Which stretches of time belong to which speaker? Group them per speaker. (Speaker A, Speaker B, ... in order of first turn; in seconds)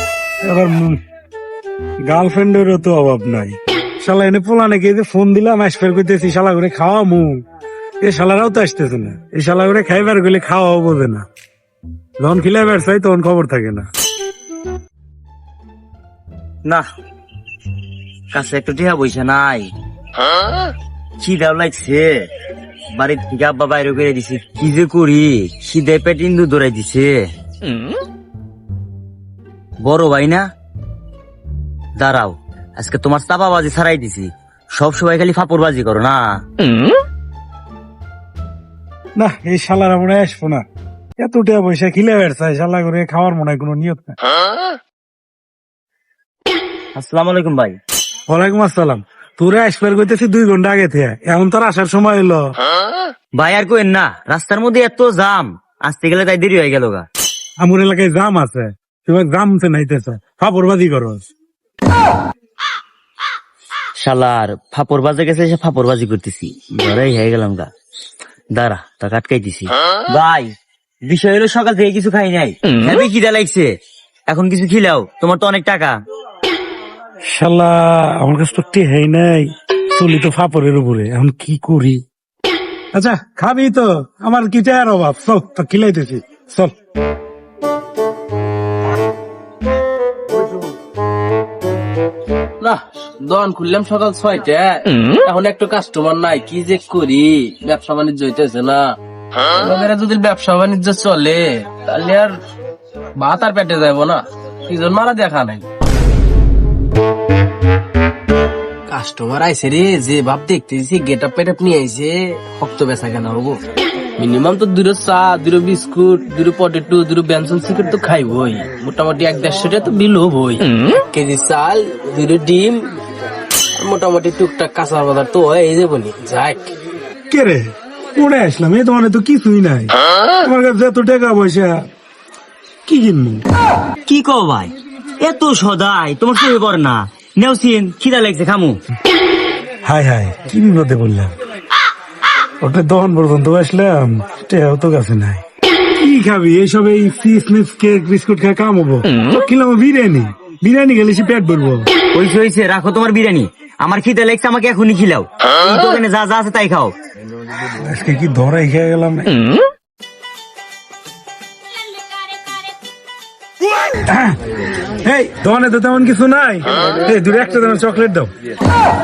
Speaker A: 0.4-1.0, 2.0-7.4, 8.0-11.2, 12.2-13.9, 39.2-40.6, 41.2-44.2, 48.3-52.5, 57.6-61.3, 77.3-82.0, 82.9-86.7, 127.3-131.8, 132.8-133.4, 139.8-141.3, 142.6-145.4, 146.0-151.9, 157.7-159.3, 163.9-164.4, 165.0-168.3
Speaker B: 18.3-19.7, 21.2-22.3, 22.9-27.2, 29.8-30.4, 32.0-36.3, 46.9-47.8, 53.3-57.1, 64.0-67.7, 68.5-70.5, 71.1-73.7, 74.3-76.0, 134.1-138.8, 152.1-156.9
Speaker C: 92.6-98.8, 99.5-102.3, 103.2-105.7, 108.9-113.6, 114.2-122.9, 123.8-126.7